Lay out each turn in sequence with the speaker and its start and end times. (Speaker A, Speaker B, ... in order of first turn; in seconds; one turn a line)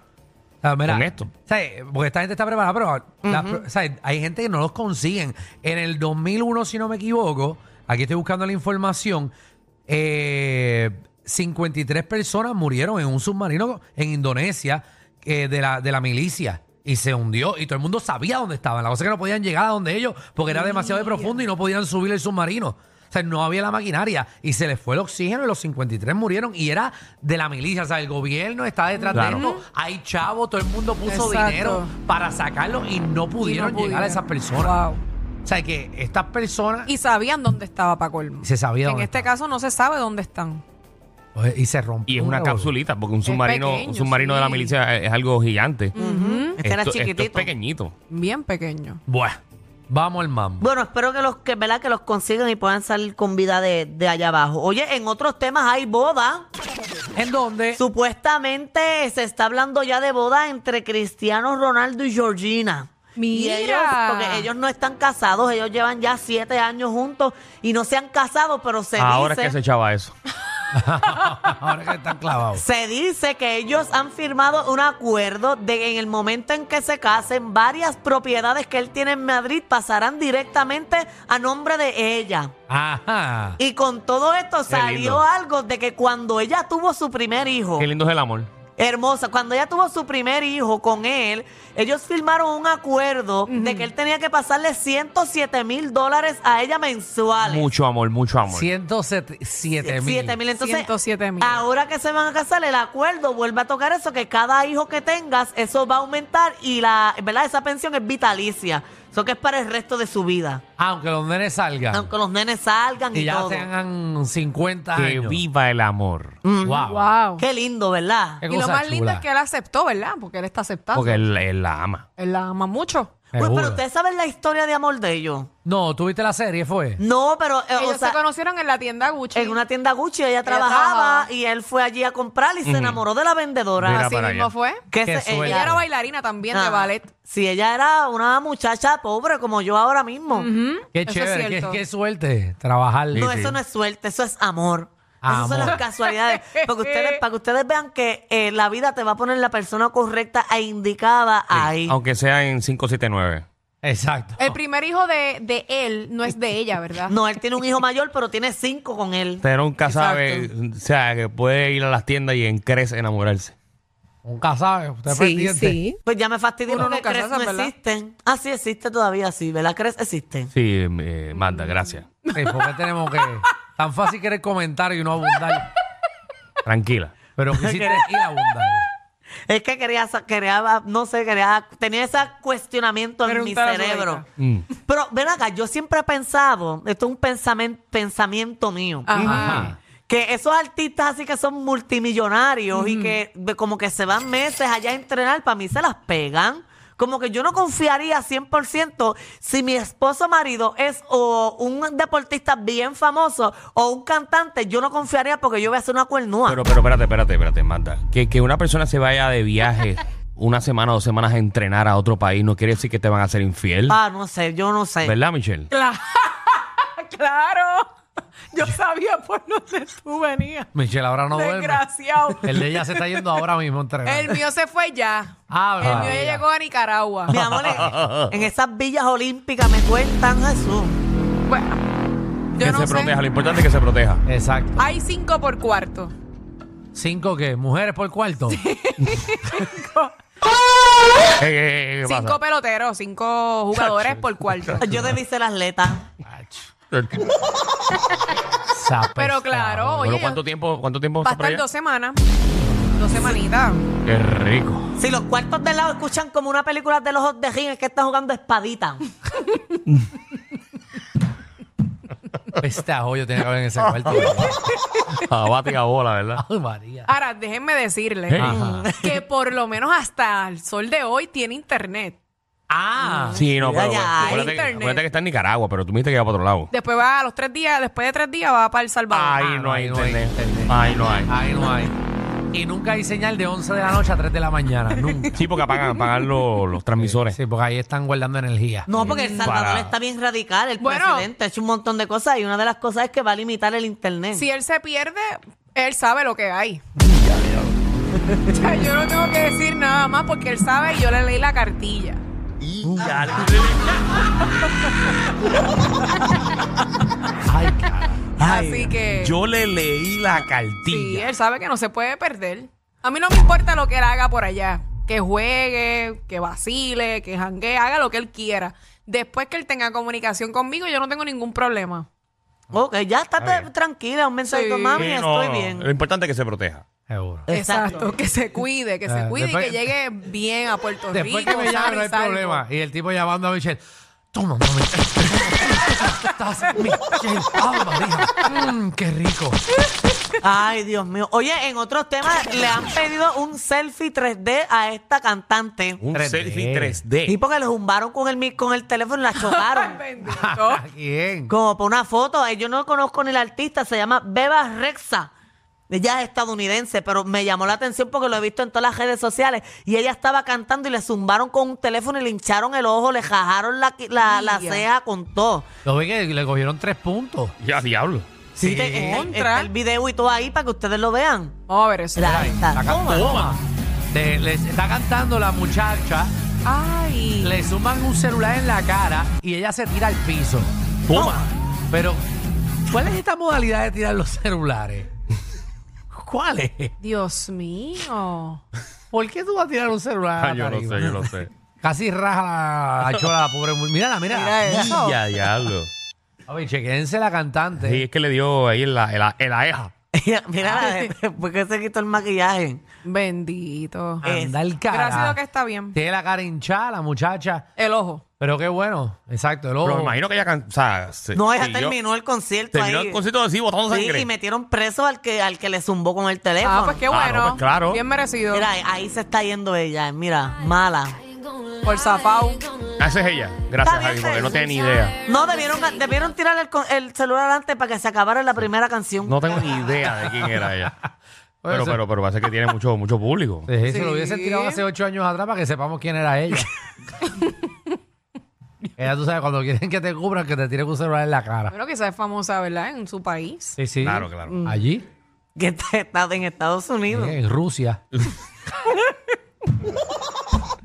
Speaker A: 0.6-9.3
Speaker B: 0.9-1.3
Speaker C: 3.2-3.6
Speaker A: 9.9-34.7
Speaker D: 20.5-21.3
Speaker D: 29.1-29.6
Speaker B: 29.1-29.4
Speaker D: 31.1-31.9
Speaker D: 33.4-35.0
Speaker A: 35.4-36.9
Speaker D: 36.9-40.6
Speaker A: 38.4-39.3
Speaker A: 41.3-42.7
Speaker B: 42.1-45.9
Speaker D: 43.2-44.8
Speaker D: 45.9-46.6
Speaker C: 46.0-47.5
Speaker B: 46.6-47.9
Speaker D: 48.1-49.0
Speaker A: 49.1-50.7
Speaker C: 50.6-56.5
Speaker A: 57.1-57.8
Speaker C: 57.8-69.5
Speaker D: 63.1-64.5
Speaker B: 69.0-70.1
Speaker A: 70.7-72.6
Speaker C: 72.5-82.5
Speaker A: 82.7-83.6
Speaker C: 83.6-87.9
Speaker B: 84.7-85.2
Speaker B: 87.8-88.5
Speaker C: 88.8-97.7
Speaker D: 93.5-93.9
Speaker B: 97.4-98.7
Speaker A: 98.5-100.4
Speaker C: 99.8-100.9
Speaker D: 100.6-101.6
Speaker C: 101.4-110.6
Speaker A: 110.8-112.1
Speaker C: 111.9-113.7
Speaker A: 113.1-115.4
Speaker B: 115.0-116.4
Speaker C: 116.4-118.4
Speaker A: 116.6-117.0
Speaker D: 116.9-117.4
Speaker A: 118.4-119.2
Speaker D: 118.5-121.3
Speaker B: 120.9-122.0
Speaker D: 122.2-123.2
Speaker A: 123.3-123.8
Speaker C: 123.3-125.5
Speaker A: 125.6-127.0
Speaker C: 127.0-128.2
Speaker D: 127.8-129.6
Speaker C: 129.3-134.1
Speaker D: 130.4-131.3
Speaker B: 132.6-133.0
Speaker B: 133.8-134.5
Speaker D: 134.0-134.9
Speaker C: 134.9-135.7
Speaker A: 135.0-135.8
Speaker D: 135.4-137.1
Speaker C: 136.5-140.5
Speaker D: 140.3-141.8
Speaker A: 140.9-143.3
Speaker B: 143.1-143.6
Speaker C: 143.1-151.9
Speaker A: 145.2-145.8
Speaker D: 145.6-147.2
Speaker B: 151.5-153.4
Speaker A: 153.8-154.5
Speaker D: 154.4-157.1
Speaker C: 157.1-159.4
Speaker B: 159.4-163.5
Speaker D: 159.8-160.5
Speaker A: 164.2-165.8
Speaker D: 165.1-166.0
Speaker C: 166.0-170.5
Speaker D: 166.7-167.7
Speaker B: 170.5-172.1
Speaker D: 172.2-173.2
Speaker A: 172.3-175.7
Speaker B: 176.6-177.1
Speaker A: 177.4-178.8
Speaker C: 177.5-178.4
Speaker C: 179.5-184.2
Speaker D: 183.2-184.3
Speaker B: 184.4-184.7
Speaker C: 184.8-189.5
Speaker D: 189.1-189.7
Speaker B: 189.1-189.7
Speaker A: 189.2-189.7
Speaker C: 190.1-206.6
Speaker D: 192.7-193.2
Speaker B: 206.4-214.0
Speaker C: 213.9-215.2
Speaker B: 215.0-215.7
Speaker D: 215.7-217.9
Speaker D: 218.5-220.7
Speaker A: 220.7-221.8
Speaker D: 221.3-223.2
Speaker A: 222.4-224.4
Speaker D: 224.0-227.3
Speaker A: 225.5-226.4
Speaker C: 225.8-226.1
Speaker C: 227.3-231.0
Speaker B: 227.3-228.4
Speaker D: 231.4-231.8
Speaker D: 232.5-233.2
Speaker B: 232.6-234.2
Speaker A: 234.2-234.8
Speaker D: 234.8-236.1
Speaker A: 236.9-238.6
Speaker D: 238.5-240.1
Speaker B: 241.4-242.4
Speaker D: 242.0-244.9
Speaker B: 243.7-244.8
Speaker C: 244.8-246.0
Speaker A: 246.2-246.7
Speaker B: 246.9-247.3
Speaker A: 248.7-250.0
Speaker D: 249.2-250.4
Speaker B: 250.0-251.6
Speaker D: 251.2-252.2
Speaker D: 252.9-253.8
Speaker B: 254.1-254.9
Speaker C: 255.0-259.1
Speaker A: 262.6-264.6
Speaker B: 264.0-264.4
Speaker D: 264.9-265.2
Speaker B: 265.2-266.4
Speaker A: 266.4-267.1
Speaker D: 267.1-272.2
Speaker B: 268.3-268.9
Speaker A: 268.4-268.6
Speaker C: 268.5-269.2
Speaker A: 272.7-273.4
Speaker C: 273.0-274.6
Speaker B: 273.3-276.7
Speaker D: 274.1-275.0
Speaker D: 276.7-279.5
Speaker B: 279.1-281.3
Speaker A: 279.4-281.9
Speaker A: 282.5-285.4
Speaker B: 285.3-287.4
Speaker A: 287.0-288.9
Speaker C: 288.9-294.4
Speaker B: 289.0-289.9
Speaker D: 289.0-289.5
Speaker D: 290.8-291.3
Speaker D: 294.3-296.8
Speaker B: 297.1-297.7
Speaker D: 298.5-302.2
Speaker B: 302.6-304.0
Speaker A: 307.4-308.3
Speaker C: 308.4-308.9
Speaker D: 308.4-309.4
Speaker B: 309.1-311.3
Speaker D: 310.9-322.1
Speaker C: 322.7-325.9
Speaker B: 323.4-323.7
Speaker D: 324.4-325.1
Speaker B: 324.9-326.8
Speaker A: 327.1-327.5
Speaker C: 327.5-328.1
Speaker D: 327.5-332.6
Speaker A: 329.1-329.9
Speaker A: 331.1-333.8
Speaker A: 334.3-339.6
Speaker C: 340.4-346.0
Speaker B: 346.0-347.4
Speaker A: 346.1-347.0
Speaker C: 347.2-350.0
Speaker D: 349.4-350.8
Speaker A: 350.3-351.5
Speaker C: 351.5-355.3
Speaker C: 355.9-365.6
Speaker D: 364.2-364.8
Speaker A: 365.8-367.6
Speaker B: 367.6-368.3
Speaker C: 368.6-371.6
Speaker A: 368.6-369.2
Speaker D: 369.0-369.7
Speaker D: 371.7-372.4
Speaker C: 372.1-373.2
Speaker A: 372.2-376.3
Speaker B: 373.0-373.6
Speaker D: 376.6-377.6
Speaker A: 377.4-380.7
Speaker B: 381.1-381.5
Speaker C: 381.1-381.5
Speaker A: 381.9-382.2
Speaker A: 382.9-385.1
Speaker A: 386.1-386.9
Speaker D: 387.0-388.6
Speaker A: 389.1-394.7
Speaker B: 390.4-391.5
Speaker C: 394.4-394.9
Speaker D: 394.5-395.2
Speaker B: 394.7-395.9
Speaker A: 396.5-398.0
Speaker B: 397.8-399.9
Speaker C: 400.1-402.8
Speaker D: 400.6-401.1
Speaker D: 403.0-404.2
Speaker A: 404.2-405.4
Speaker C: 404.2-404.6
Speaker D: 404.9-405.9
Speaker A: 405.9-407.7
Speaker D: 407.8-408.2
Speaker A: 408.4-410.1
Speaker B: 409.8-412.0
Speaker C: 411.3-413.2
Speaker B: 412.7-414.3
Speaker C: 413.9-417.0
Speaker D: 416.6-418.7
Speaker B: 417.1-418.0
Speaker C: 418.5-421.2
Speaker D: 421.8-422.7
Speaker B: 423.0-425.2
Speaker C: 423.8-424.6
Speaker C: 425.2-429.6
Speaker B: 429.2-431.0
Speaker A: 430.2-430.6
Speaker A: 431.6-432.0
Speaker B: 431.7-433.7
Speaker A: 433.6-436.7
Speaker D: 433.8-434.8
Speaker D: 437.2-437.7
Speaker A: 439.0-441.7
Speaker D: 441.7-443.8
Speaker A: 443.8-445.1
Speaker B: 444.0-444.6
Speaker C: 445.6-447.4
Speaker A: 447.1-448.0